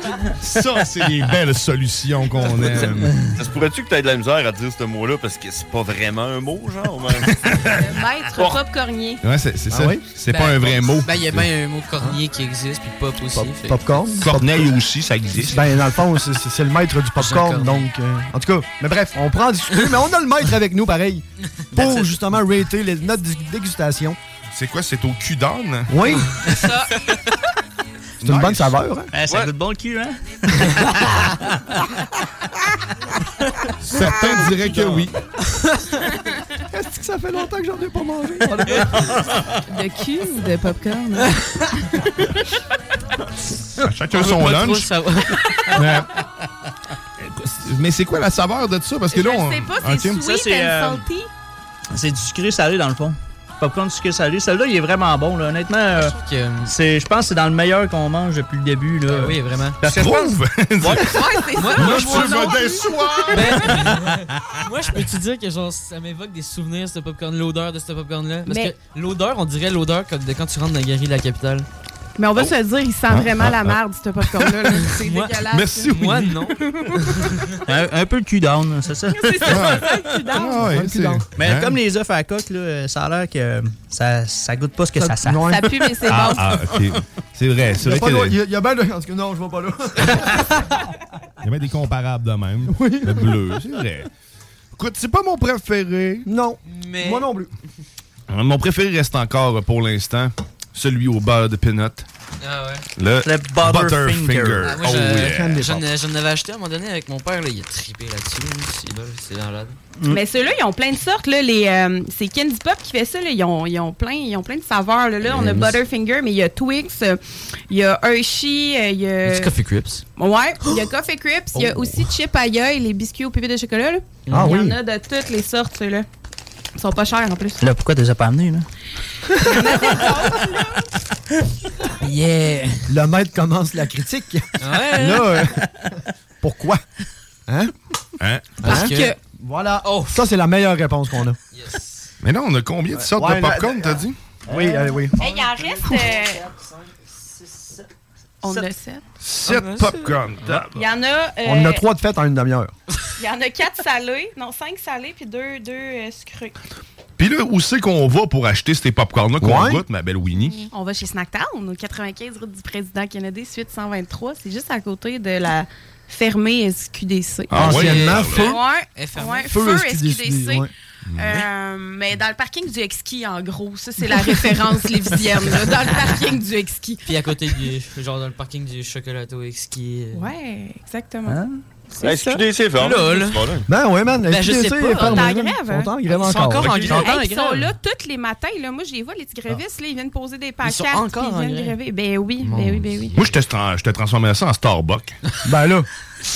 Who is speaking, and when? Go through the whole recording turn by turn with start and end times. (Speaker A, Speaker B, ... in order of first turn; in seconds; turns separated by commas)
Speaker A: 0.4-3.1, Speaker B: 3.4-7.3, Speaker A: 7.3-7.8, Speaker C: 7.7-9.2, Speaker A: 9.2-11.5, Speaker D: 9.7-10.0, Speaker E: 10.3-13.8, Speaker D: 13.3-14.7, Speaker A: 14.2-15.7, Speaker D: 15.4-24.2, Speaker E: 17.2-17.9, Speaker E: 21.7-22.1, Speaker A: 24.5-26.1, Speaker D: 25.9-26.5, Speaker C: 26.5-26.9, Speaker A: 28.2-28.8, Speaker D: 28.2-29.1, Speaker F: 29.1-31.5, Speaker A: 33.8-35.1, Speaker E: 34.5-35.0, Speaker D: 36.7-39.1, Speaker C: 39.7-41.3, Speaker A: 43.8-44.9, Speaker E: 44.1-45.7, Speaker A: 45.7-46.1, Speaker A: 47.2-50.3, Speaker C: 49.1-51.3, Speaker F: 50.2-51.1, Speaker F: 51.9-56.1, Speaker E: 55.9-56.7, Speaker F: 56.7-60.2, Speaker E: 59.1-60.0, Speaker A: 59.9-63.9, Speaker C: 60.8-63.8, Speaker E: 61.5-62.4, Speaker E: 63.3-71.7, Speaker C: 68.5-68.7, Speaker C: 72.2-76.0, Speaker A: 73.1-75.0, Speaker E: 75.0-77.4, Speaker A: 75.5-76.5, Speaker F: 77.7-79.5, Speaker C: 79.1-80.8, Speaker A: 79.5-81.8, Speaker D: 80.6-81.3, Speaker F: 81.4-85.8, Speaker D: 85.0-85.7, Speaker C: 85.5-86.8, Speaker A: 86.1-88.3, Speaker D: 87.8-90.5, Speaker A: 91.4-94.1, Speaker D: 92.7-93.3, Speaker A: 94.8-96.3, Speaker D: 96.2-97.5, Speaker E: 96.7-97.3, Speaker A: 98.3-102.1, Speaker E: 102.4-102.8, Speaker A: 103.0-105.7, Speaker F: 103.2-104.8, Speaker E: 104.6-109.8, Speaker D: 105.2-105.8, Speaker C: 110.1-119.5, Speaker D: 115.2-115.8, Speaker E: 119.2-120.0, Speaker C: 120.2-126.1, Speaker E: 124.3-124.5, Speaker D: 124.3-124.8, Speaker C: 126.8-127.6, Speaker F: 127.6-128.7, Speaker C: 129.4-130.8, Speaker F: 129.6-130.1, Speaker F: 132.1-132.6, Speaker D: 132.9-135.6, Speaker E: 134.6-135.5, Speaker D: 136.4-136.8, Speaker D: 137.5-137.7, Speaker A: 138.2-138.7, Speaker D: 138.6-141.4, Speaker C: 138.7-139.2, Speaker E: 138.7-139.1, Speaker E: 139.8-140.2, Speaker E: 141.5-142.1, Speaker A: 142.2-144.2, Speaker D: 143.0-145.2, Speaker C: 145.2-146.5, Speaker E: 145.2-145.5, Speaker C: 148.4-149.0, Speaker A: 149.2-150.8, Speaker E: 149.4-150.2, Speaker C: 150.7-151.8, Speaker D: 151.4-152.7, Speaker C: 153.2-156.6, Speaker A: 157.2-160.7, Speaker D: 159.4-159.8, Speaker C: 160.4-177.1, Speaker A: 167.5-168.4, Speaker D: 167.5-168.6, Speaker E: 167.7-169.6, Speaker D: 169.5-170.7, Speaker A: 171.1-171.5, Speaker E: 177.1-180.2, Speaker C: 180.1-181.4, Speaker F: 181.3-181.6, Speaker C: 182.0-182.4, Speaker B: 182.0-183.7, Speaker E: 182.8-183.5, Speaker D: 183.7-187.0, Speaker E: 184.3-185.4, Speaker C: 184.9-186.0, Speaker E: 186.1-187.7, Speaker C: 186.6-193.2, Speaker E: 190.6-191.8, Speaker A: 193.1-195.2, Speaker D: 195.4-195.9